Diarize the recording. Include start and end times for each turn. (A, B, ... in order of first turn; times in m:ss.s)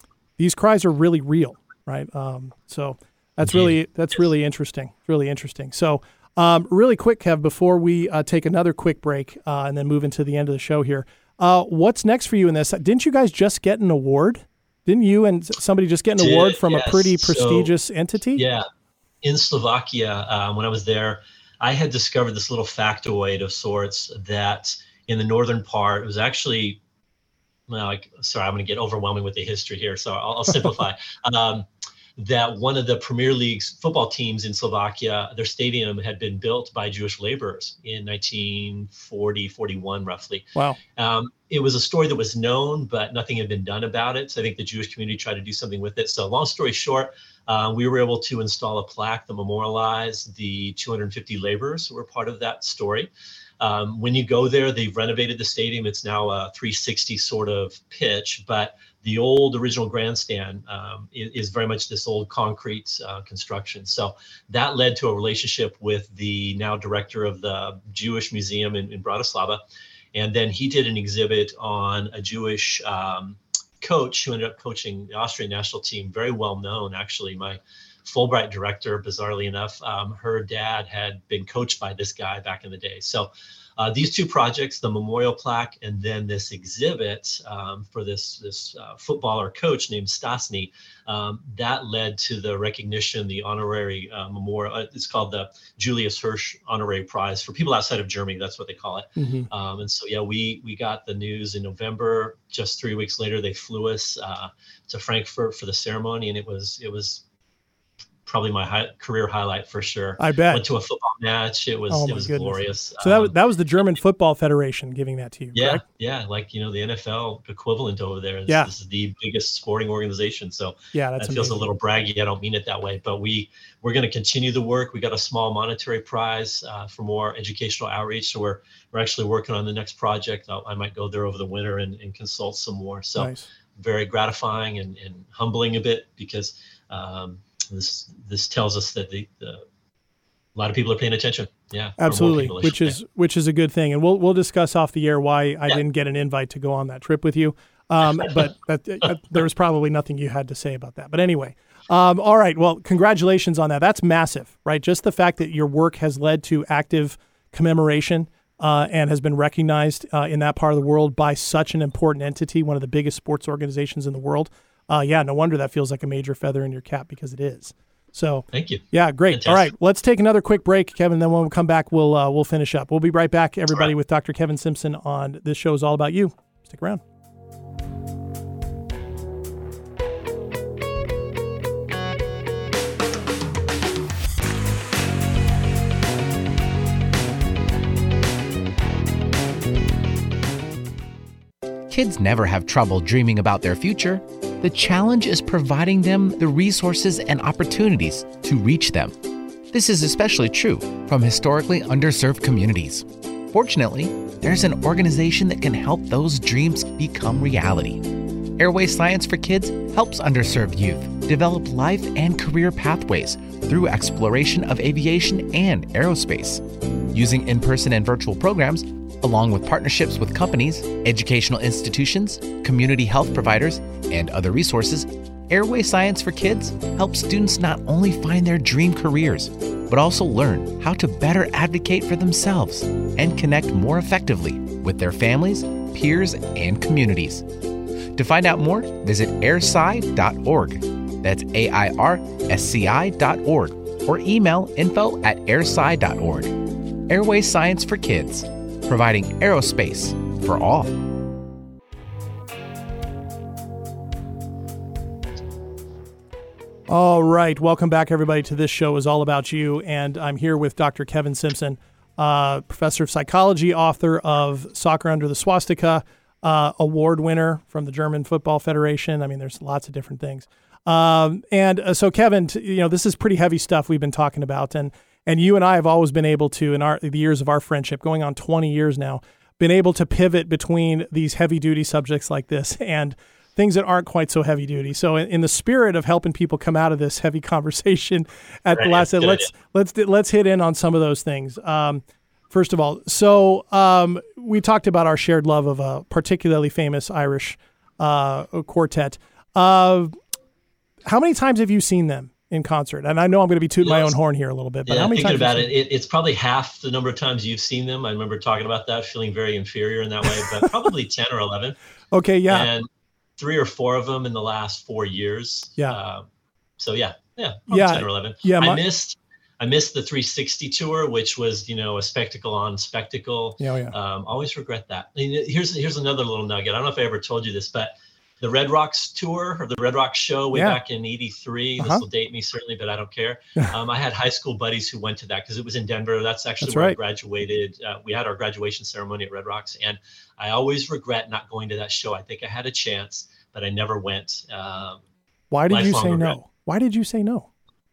0:00.4-0:18.4 A
0:03.4-0:03.8 B
0:16.2-0:17.7 B
0:18.4-0:18.6 B
0:19.2-0:26.8 B
0:27.7-1:09.6 B
1:10.1-1:47.2 B
1:39.2-1:39.5 A
1:48.3-1:53.3 B
1:50.2-1:50.6 A
1:51.9-1:55.8 A
1:55.5-2:19.6 B
2:00.9-2:01.6 A
2:13.2-2:13.5 A
2:20.6-2:23.0 B
2:22.0-2:57.0 A
2:48.5-2:49.7 B
3:11.9-3:19.2 C
3:19.7-3:57.5 C
3:58.1-4:11.0 C
4:16.9-5:00.1 A
4:48.7-4:49.5 B
5:01.1-5:05.7 A
5:03.8-5:04.2 B
5:04.9-5:11.8 B
5:12.1-5:12.7 A
5:12.5-5:16.3 B
5:16.8-5:45.0 B
5:17.7-5:18.8 A
5:23.6-5:23.9 A
5:30.5-5:30.8 A
5:31.8-5:32.0 A
5:36.6-5:37.0 A
5:45.5-5:47.5 A
5:45.7-5:46.4 B